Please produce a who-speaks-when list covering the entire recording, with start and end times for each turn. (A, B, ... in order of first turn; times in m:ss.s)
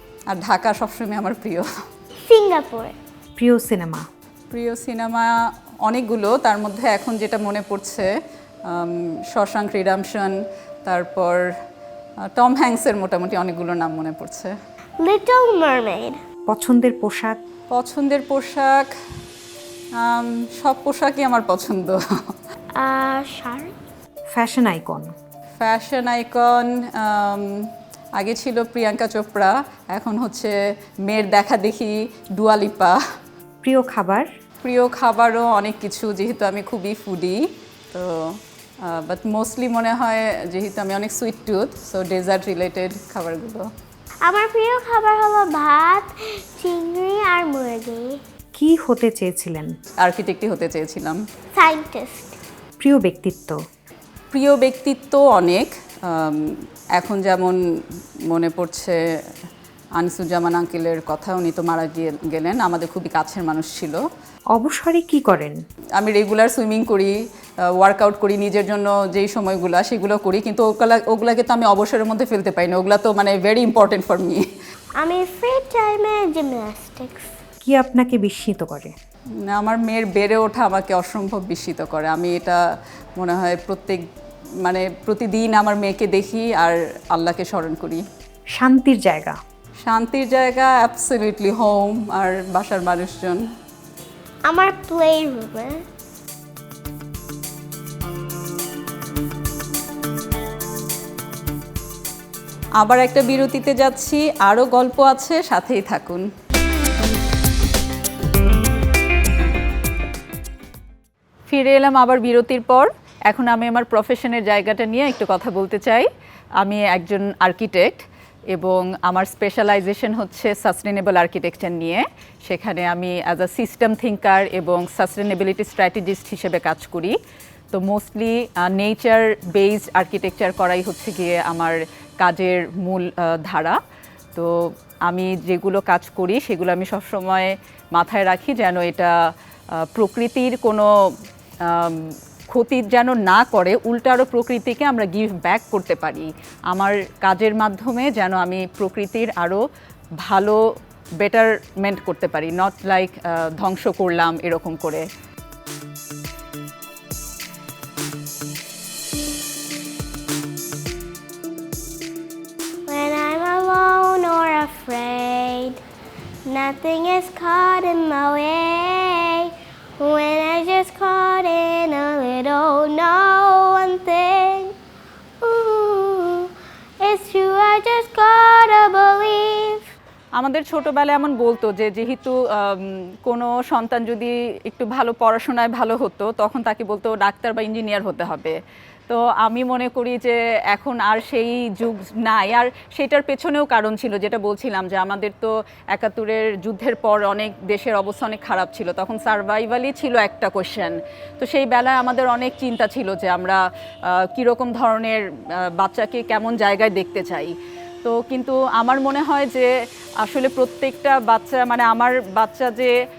0:00.3-0:01.7 A
0:02.3-0:02.9 B
0:03.4-0:04.0 C
0:04.5-0:05.3 A
0:05.8-0:08.1 A
0:08.7-0:11.4 A
0:12.3-0:14.5 A
0:15.0-0:16.2 B
0:16.5-0:17.4 C
0:17.7-0:18.9 A
0:20.0-0:22.0 A
0:22.8-0:23.7 B
0:24.3-0:25.1 C
0:25.6-0:27.6 A
0:28.2-0:30.5 A
0:31.1-0:33.0 A
0:33.6-0:34.3 C
0:34.6-0:37.4 A
0:38.9-0:43.7 A
0:44.3-0:48.2 B
0:48.6-0:49.7 C
0:50.0-0:51.2 A
0:51.6-0:52.4 B
0:52.8-0:53.6 C
0:54.3-0:57.6 A
0:58.3-0:59.0 A
1:00.0-1:04.0 A
1:04.5-1:05.6 C
1:06.0-1:07.2 A
1:07.8-1:14.4 A
1:15.0-1:17.3 B
1:17.6-1:18.9 C
1:19.5-1:22.6 A
1:23.2-1:24.0 A
1:24.6-1:28.0 A
1:28.6-1:29.4 C
1:29.8-1:33.4 A
1:34.5-1:35.8 B
1:42.8-1:46.3 A
1:51.5-1:56.1 A
1:56.6-2:07.2 A
2:07.7-2:13.8 A
2:15.1-2:19.1 A
2:19.9-2:20.9 A
2:21.7-2:29.6 A
2:30.2-2:30.6 A
2:31.2-2:35.0 A
2:42.9-2:45.8 B
2:46.5-2:54.7 B
2:55.4-2:56.5 B
2:57.0-2:59.8 B
3:00.4-3:08.6 A
3:09.1-3:23.6 A
3:24.2-3:29.7 A
3:30.2-3:32.9 A